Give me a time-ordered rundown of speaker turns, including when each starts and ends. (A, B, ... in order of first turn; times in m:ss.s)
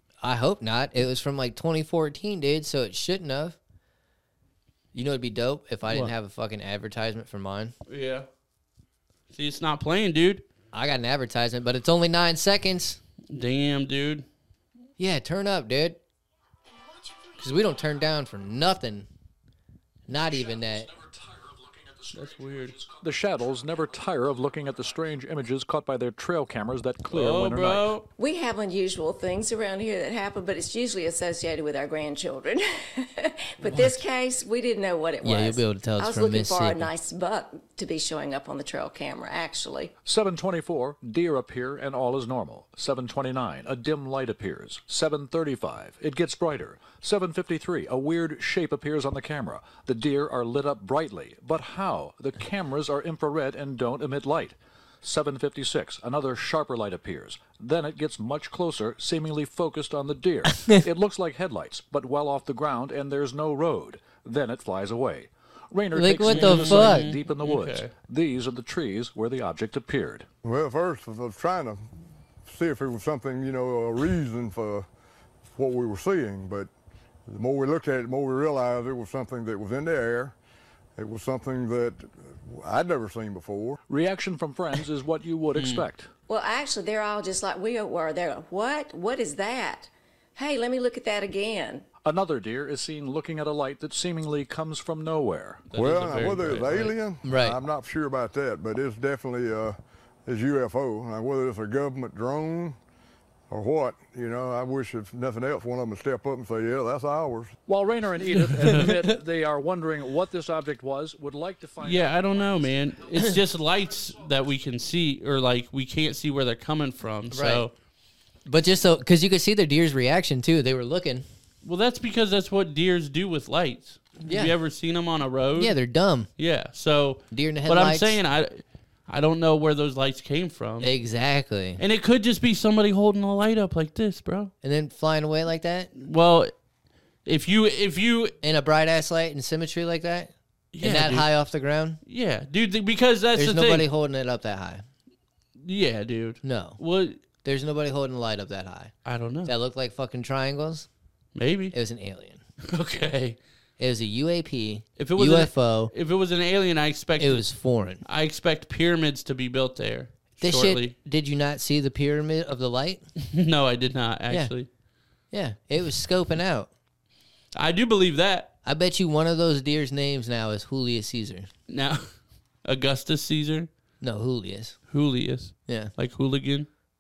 0:00.2-0:03.6 A
0:04.9-0:07.7 A
0:07.9-0:08.3 B
0:09.3-0:10.4 B
0:10.7-0:13.0 A
0:13.3-0:14.3 B
0:15.0-0:16.0 A
0:17.3-0:19.1 A
0:20.1-0:20.9 A
0:22.1-0:22.8 B
0:22.8-0:28.0 C
0:27.1-0:28.1 B
0:28.2-0:39.9 D
0:33.6-0:34.0 A
0:35.2-0:36.9 A
0:40.0-1:10.3 C
1:05.9-1:07.1 A
1:06.2-1:07.9 B
1:10.4-1:11.8 E
1:12.4-1:14.9 E
1:15.5-1:16.7 E
1:17.3-1:20.4 E
1:21.0-1:23.8 E
1:23.9-1:26.1 C
1:25.6-1:25.8 B
1:26.3-1:31.8 D
1:32.0-1:35.6 C
1:35.7-1:36.9 B
1:35.8-1:42.8 E
1:37.2-1:37.6 A
1:43.5-1:47.6 E
1:47.7-1:52.3 C
1:48.5-1:48.9 B
1:51.8-1:57.7 B
1:57.3-1:57.7 A
1:58.5-2:01.2 A
2:01.6-2:05.8 B
2:04.2-2:04.5 A
2:05.6-2:06.3 A
2:06.4-2:10.9 B
2:07.3-2:08.2 A
2:10.8-2:11.8 A
2:11.8-2:14.5 B
2:14.6-2:15.9 A
2:16.0-2:16.5 B
2:17.2-2:18.3 B
2:18.4-2:22.0 A
2:20.7-2:21.3 B
2:22.1-2:23.9 B
2:23.4-2:24.8 A
2:25.6-2:27.2 B
2:26.4-2:26.8 A
2:27.4-2:28.9 A
2:29.0-2:29.5 B
2:29.4-2:30.9 A
2:31.4-2:31.8 B
2:31.7-2:32.4 A
2:32.6-2:33.4 B
2:33.8-2:35.9 A
2:35.0-2:37.4 B
2:37.2-2:38.0 A
2:38.0-2:40.9 B
2:40.4-2:43.0 A
2:43.2-2:44.7 B
2:45.3-2:46.7 A
2:47.6-2:48.5 B
2:48.6-2:51.5 A
2:51.7-2:52.1 B
2:52.6-2:53.7 B
2:54.0-2:54.8 A
2:54.9-2:56.7 B
2:55.7-2:55.9 A